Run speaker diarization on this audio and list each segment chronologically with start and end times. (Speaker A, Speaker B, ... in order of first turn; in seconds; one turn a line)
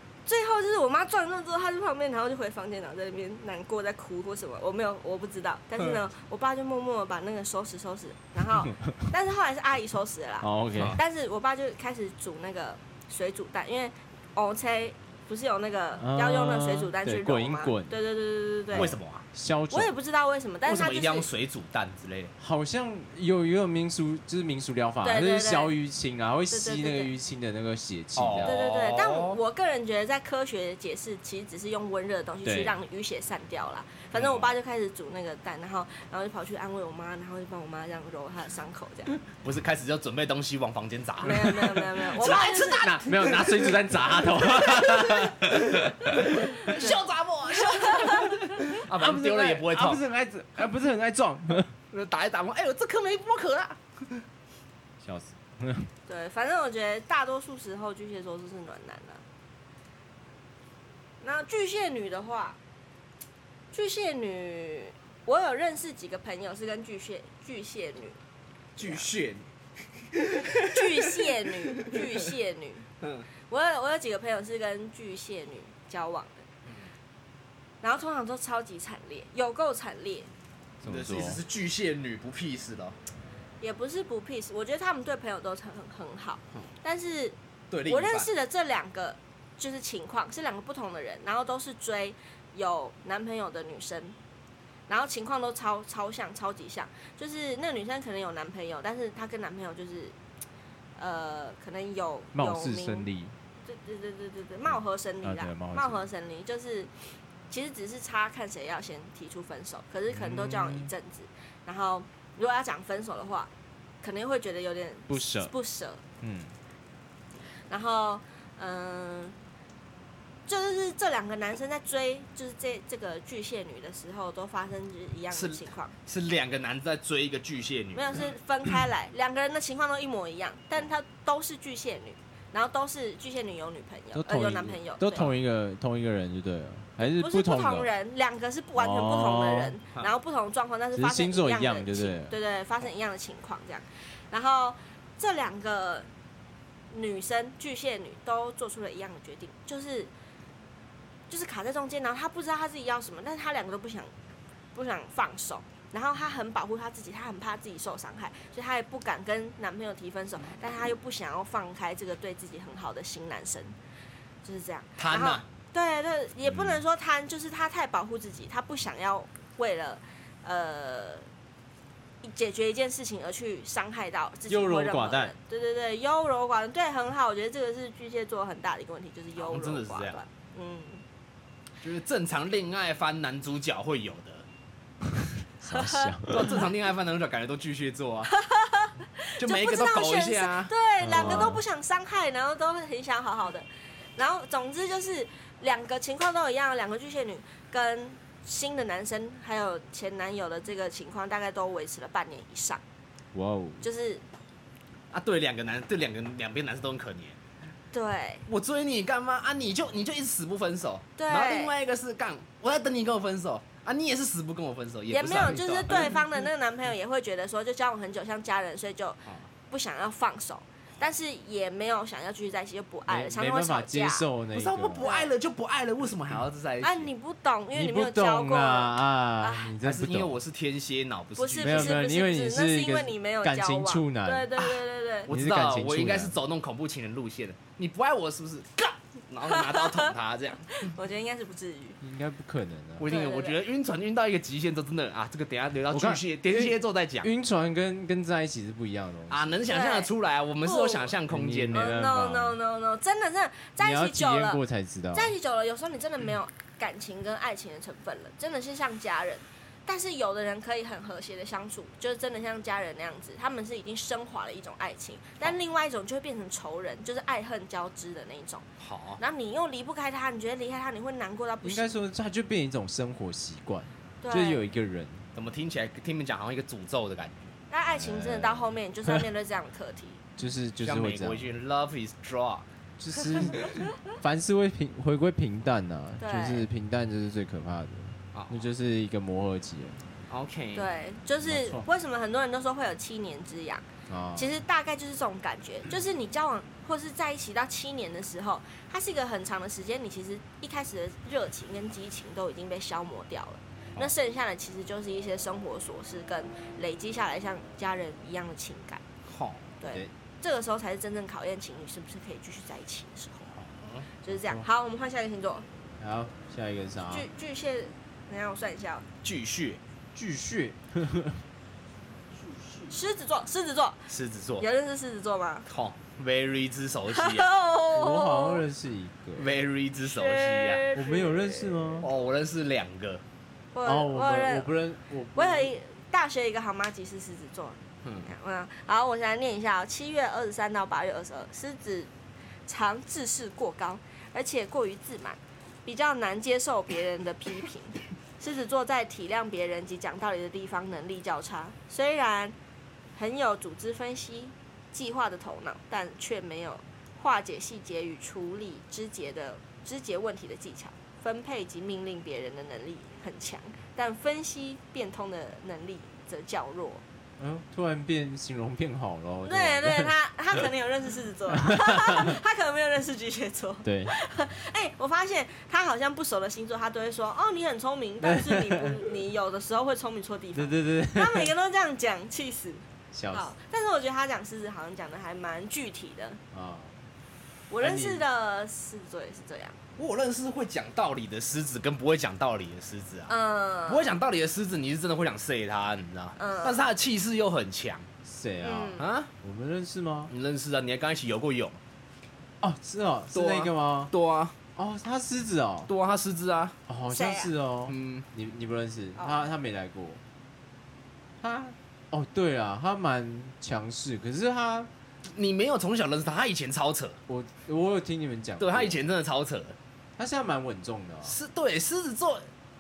Speaker A: 0.3-18.9
Speaker B: 10.4-11.0
Speaker B: 16.0-17.9
Speaker B: 18.7-19.9
Speaker C: 18.7-19.2
Speaker A: 19.7-21.3
Speaker C: 20.6-22.3
Speaker B: 22.4-28.6
Speaker A: 25.0-25.7
Speaker A: 26.5-27.1
Speaker C: 28.2-29.4
Speaker A: 28.4-39.2
Speaker B: 32.4-32.8
Speaker C: 34.1-34.5
Speaker C: 39.4-50.0
Speaker A: 41.2-43.0
Speaker B: 42.2-46.6
Speaker A: 46.0-47.0
Speaker A: 47.7-48.3
Speaker B: 48.2-51.7
Speaker C: 51.9-54.2
Speaker B: 55.0-55.9
Speaker A: 56.1-59.2
Speaker A: 61.2-62.6
Speaker A: 63.7-68.2
Speaker C: 68.8-69.5
Speaker A: 68.8-69.1
Speaker C: 70.1-71.2
Speaker A: 70.6-72.9
Speaker C: 71.7-72.1
Speaker C: 73.0-73.3
Speaker A: 73.5-76.4
Speaker A: 77.8-80.3
Speaker B: 80.8-81.4
Speaker C: 80.9-83.0
Speaker A: 83.6-94.2
Speaker C: 87.7-88.3
Speaker A: 94.9-100.2
Speaker A: 101.0-103.1
Speaker B: 102.3-103.3
Speaker A: 103.7-106.9
Speaker B: 105.2-106.1
Speaker A: 107.5-113.5
Speaker B: 110.1-110.9
Speaker A: 114.0-116.0
Speaker B: 115.1-115.5
Speaker B: 116.2-116.5
Speaker A: 117.7-119.4
Speaker A: 120.5-125.9
Speaker C: 125.3-128.3
Speaker A: 127.9-135.3
Speaker B: 134.1-137.9
Speaker A: 137.2-146.1
Speaker B: 138.8-139.8
Speaker B: 140.9-142.4
Speaker A: 146.9-150.1
Speaker A: 151.3-154.1
Speaker A: 154.7-163.8
Speaker A: 164.4-171.3
Speaker C: 165.0-165.4
Speaker A: 172.2-181.0
Speaker B: 174.5-175.3
Speaker C: 179.4-180.2
Speaker C: 181.8-184.4
Speaker B: 185.2-186.5
Speaker A: 185.7-186.6
Speaker C: 186.3-188.3
Speaker A: 188.3-202.8
Speaker C: 189.4-191.5
Speaker B: 191.0-191.6
Speaker B: 203.3-203.8
Speaker A: 203.8-204.2
Speaker C: 205.1-207.4
Speaker A: 207.9-208.5
Speaker C: 208.5-216.3
Speaker A: 211.2-211.7
Speaker A: 215.1-224.3
Speaker B: 223.1-225.1
Speaker C: 224.5-227.1
Speaker A: 225.0-225.3
Speaker A: 226.8-229.7
Speaker B: 227.7-230.4
Speaker C: 229.8-232.0
Speaker A: 231.4-235.3
Speaker B: 231.6-234.5
Speaker C: 235.3-240.9
Speaker B: 235.3-236.4
Speaker A: 239.4-240.1
Speaker A: 240.7-242.0
Speaker B: 242.0-243.2
Speaker C: 243.0-247.3
Speaker A: 243.1-243.6
Speaker B: 245.9-249.5
Speaker C: 249.3-252.0
Speaker A: 249.7-250.1
Speaker A: 250.6-251.1
Speaker B: 251.3-252.6
Speaker A: 251.7-254.6
Speaker B: 253.8-255.3
Speaker A: 255.1-268.7
Speaker C: 268.8-269.2
Speaker A: 269.2-271.9
Speaker B: 271.6-275.3
Speaker A: 274.2-274.6
Speaker C: 275.4-277.5
Speaker A: 277.7-280.2
Speaker B: 278.0-279.3
Speaker B: 280.4-281.5
Speaker C: 280.8-282.7
Speaker B: 283.0-290.0
Speaker A: 286.2-286.7
Speaker C: 288.3-288.7
Speaker C: 290.3-290.9
Speaker A: 290.8-309.0
Speaker B: 291.4-291.9
Speaker B: 294.1-294.6
Speaker C: 309.3-309.7
Speaker A: 309.8-313.5
Speaker C: 313.8-314.1
Speaker A: 314.2-315.7
Speaker B: 314.3-314.6
Speaker B: 316.0-317.3
Speaker A: 317.1-319.1
Speaker C: 319.2-319.8
Speaker B: 320.1-321.4
Speaker A: 322.9-324.1
Speaker C: 324.1-324.7
Speaker A: 324.6-325.7
Speaker C: 325.7-327.5
Speaker A: 327.1-328.6
Speaker B: 327.9-329.5
Speaker C: 329.4-330.9
Speaker A: 330.0-332.1
Speaker B: 330.9-332.1
Speaker C: 332.0-333.2
Speaker A: 333.7-334.7
Speaker B: 333.9-335.7
Speaker A: 335.4-342.1
Speaker C: 338.0-338.3
Speaker A: 342.7-352.6
Speaker A: 353.2-367.0
Speaker B: 367.4-370.6
Speaker A: 369.4-386.4
Speaker B: 371.5-372.4
Speaker B: 373.8-374.1
Speaker B: 378.2-379.0
Speaker B: 380.6-381.5
Speaker B: 383.1-383.5
Speaker B: 386.5-387.1
Speaker A: 387.7-389.8
Speaker B: 387.9-388.2
Speaker C: 390.0-393.3
Speaker A: 393.3-394.1
Speaker C: 393.9-398.1
Speaker A: 396.4-396.8
Speaker B: 398.2-400.3
Speaker A: 398.6-399.1
Speaker C: 399.0-399.3
Speaker C: 400.3-401.8
Speaker B: 402.6-404.1
Speaker C: 403.3-404.6
Speaker B: 404.8-405.9
Speaker C: 405.9-406.8
Speaker B: 406.9-410.2
Speaker A: 407.1-407.5
Speaker C: 407.9-408.3
Speaker A: 409.2-409.4
Speaker B: 411.4-414.9
Speaker C: 415.3-417.2
Speaker B: 417.3-419.0
Speaker C: 418.6-419.8
Speaker B: 420.2-421.4
Speaker C: 421.2-422.4